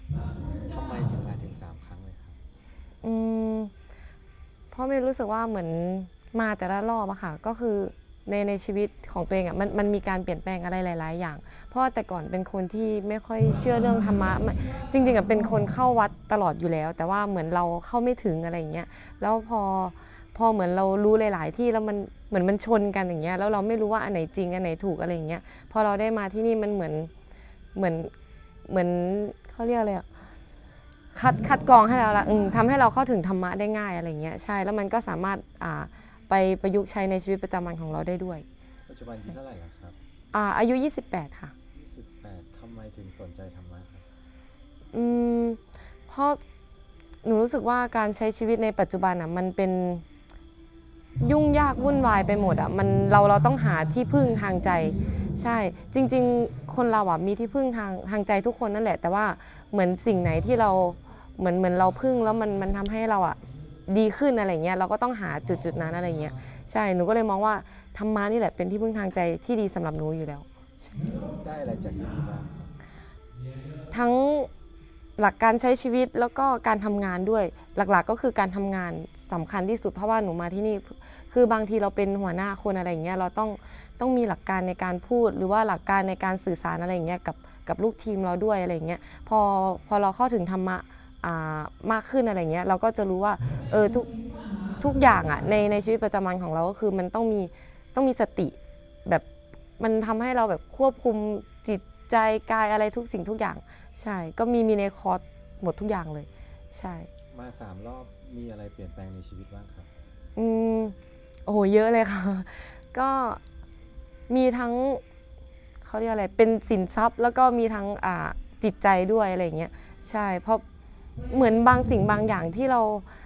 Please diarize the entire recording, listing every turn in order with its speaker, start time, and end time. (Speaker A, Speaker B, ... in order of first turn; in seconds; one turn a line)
Speaker A: 0.6-2.4
Speaker B: 3.0-3.7
Speaker B: 4.7-27.1
Speaker B: 27.8-28.1
Speaker B: 28.7-30.1
Speaker B: 31.1-38.5
Speaker A: 38.9-40.0
Speaker B: 40.3-41.5
Speaker A: 41.7-44.1
Speaker B: 44.9-46.4
Speaker B: 47.2-50.0
Speaker B: 51.2-71.2
Speaker A: 71.3-72.7
Speaker B: 73.9-74.5
Speaker B: 75.2-94.1
Speaker B: 94.8-99.2
Speaker B: 99.8-107.1
Speaker A: 107.3-109.9
Speaker B: 110.4-113.4
Speaker B: 114.3-115.0
Speaker B: 115.8-120.6
Speaker B: 121.3-123.1